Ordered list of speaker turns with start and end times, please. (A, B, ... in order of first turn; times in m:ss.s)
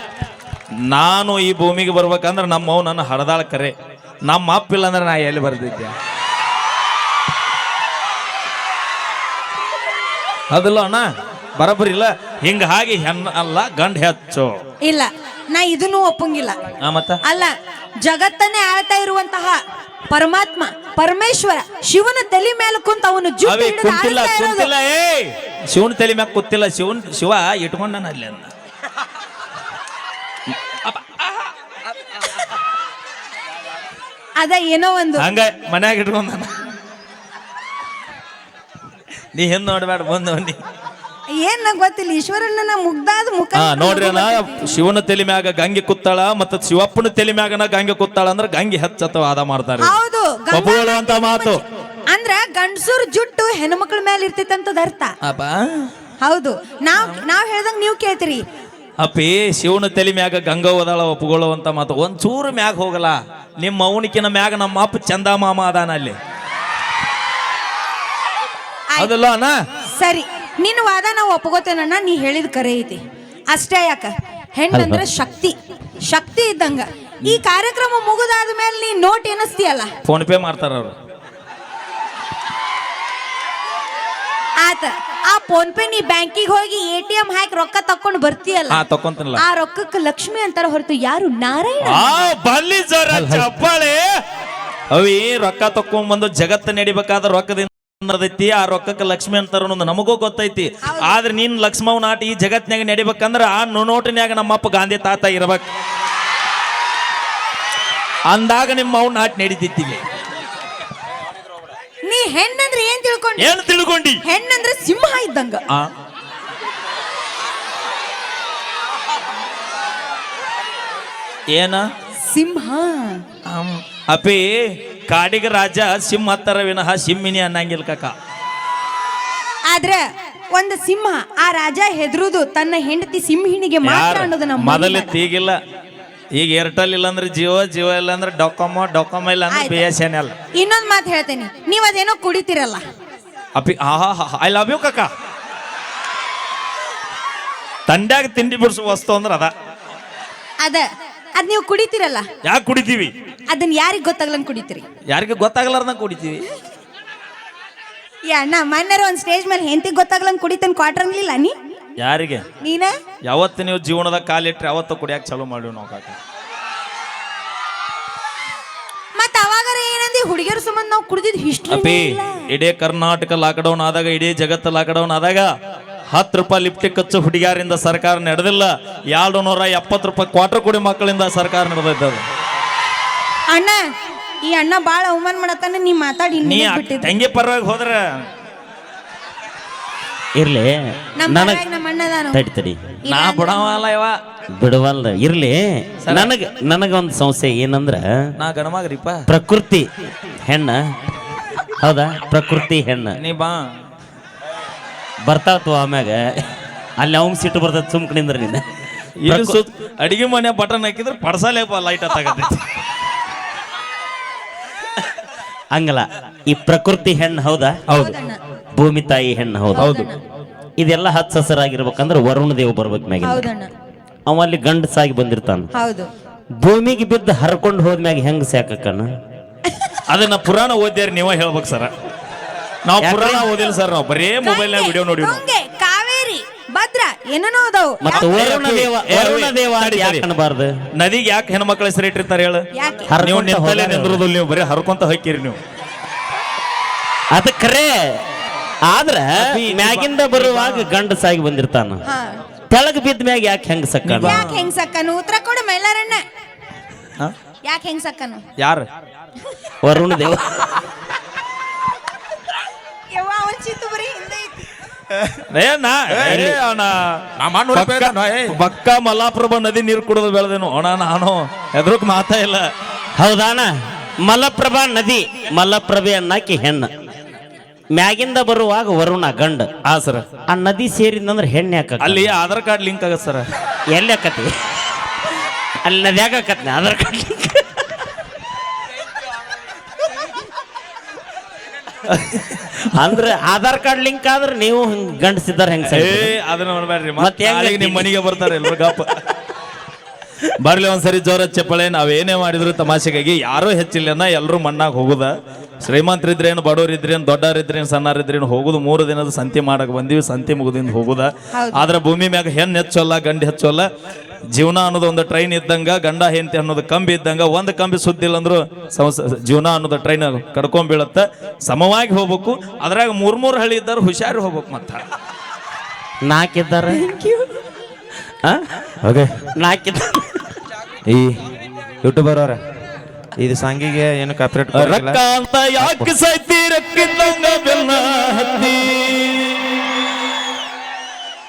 0:00.9-0:03.7 A
0:04.2-0:05.9 A
0:10.5-0:11.0 A
0:11.6-0:14.5 A
0:14.8-0:16.6 B
0:16.8-0:17.2 A
0:17.2-0:24.7 B
0:23.4-0:28.5 A
0:30.8-0:31.4 A
0:34.4-0:35.2 B
0:35.2-0:36.5 A
0:39.3-0:40.6 A
0:41.3-0:44.8 B
0:43.6-0:49.9 A
0:49.8-0:55.1 B
0:50.5-0:51.6 A
0:55.2-0:55.9 A
0:56.2-0:58.4 B
0:59.0-1:06.2 A
1:09.0-1:09.6 A
1:09.9-1:13.0 B
1:13.5-1:19.9 B
1:14.7-1:15.0 C
1:20.0-1:20.9 A
1:24.6-1:28.8 B
1:28.7-1:29.4 A
1:29.4-1:32.1 B
1:31.8-1:34.0 A
1:33.2-1:33.5 D
1:34.9-1:45.6 A
1:40.8-1:41.1 B
1:48.3-1:50.0 A
1:52.0-1:53.5 B
1:53.4-1:54.2 A
1:54.2-1:55.6 B
2:01.5-2:01.8 A
2:02.3-2:03.2 B
2:03.5-2:08.1 A
2:09.6-2:15.2 B
2:13.8-2:15.6 A
2:16.3-2:20.3 A
2:19.5-2:19.8 B
2:20.5-2:22.8 B
2:23.6-2:25.1 A
2:27.9-2:29.5 A
2:30.6-2:32.2 B
2:32.4-2:33.1 A
2:33.5-2:34.8 B
2:35.1-2:36.4 A
2:38.3-2:41.5 B
2:42.0-2:42.4 A
2:42.6-2:42.9 B
2:43.2-2:46.2 A
2:49.1-2:52.5 B
2:51.7-2:55.5 A
2:56.1-3:02.2 A
3:03.5-3:03.8 B
3:04.4-3:07.1 B
3:06.4-3:08.0 A
3:10.3-3:11.6 C
3:11.2-3:12.4 B
3:12.3-3:13.0 C
3:13.0-3:13.7 B
3:13.1-3:14.2 A
3:14.5-3:18.3 C
3:16.0-3:16.3 A
3:18.4-3:19.2 A
3:19.3-3:20.8 C
3:21.8-3:23.2 C
3:23.2-3:23.6 A
3:25.2-3:26.4 C
3:27.0-3:28.6 C
3:29.2-3:32.7 A
3:29.2-3:29.6 C
3:35.7-3:37.8 C
3:37.9-3:38.2 A
3:37.9-3:38.4 B
3:38.8-3:39.9 C
3:39.7-3:40.2 B
3:39.8-3:40.1 A
3:40.8-3:43.5 C
3:43.2-3:43.7 B
3:44.2-3:45.7 C
3:45.7-3:46.1 B
3:46.6-3:49.1 C
3:50.1-3:51.9 A
3:52.8-3:55.4 A
3:53.0-3:53.5 C
3:54.4-3:58.3 B
3:58.0-4:00.7 C
3:58.1-4:00.2 A
4:00.9-4:02.6 A
4:02.7-4:03.1 B
4:03.1-4:04.2 C
4:03.2-4:05.6 A
4:07.3-4:08.2 C
4:08.8-4:12.0 C
4:09.3-4:10.9 A
4:12.0-4:12.4 B
4:12.7-4:14.4 C
4:14.0-4:14.6 A
4:14.2-4:16.2 B
4:17.6-4:18.4 B
4:18.6-4:18.9 A
4:19.8-4:20.8 C
4:23.1-4:24.7 B
4:25.5-4:32.7 A
4:26.1-4:26.6 D
4:26.2-4:26.5 C
4:27.4-4:28.6 D
4:33.2-4:36.9 C
4:37.9-4:39.8 C
4:39.8-4:40.2 A
4:40.4-4:42.3 C
4:42.0-4:43.5 A
4:43.9-4:44.7 C
4:45.8-4:48.1 C
4:52.1-4:52.6 A
4:52.9-4:56.3 C
4:55.9-4:59.2 A
4:57.2-4:58.9 C
5:00.6-5:05.3 A
5:05.8-5:13.9 A
5:11.5-5:11.8 B
5:14.5-5:25.0 A
5:26.2-5:27.0 C
5:26.9-5:27.5 B
5:28.4-5:28.8 C
5:29.0-5:29.5 D
5:29.6-5:30.5 C
5:31.1-5:31.4 D
5:32.0-5:32.6 D
5:33.4-5:35.2 D
5:34.7-5:39.6 A
5:35.8-5:36.1 D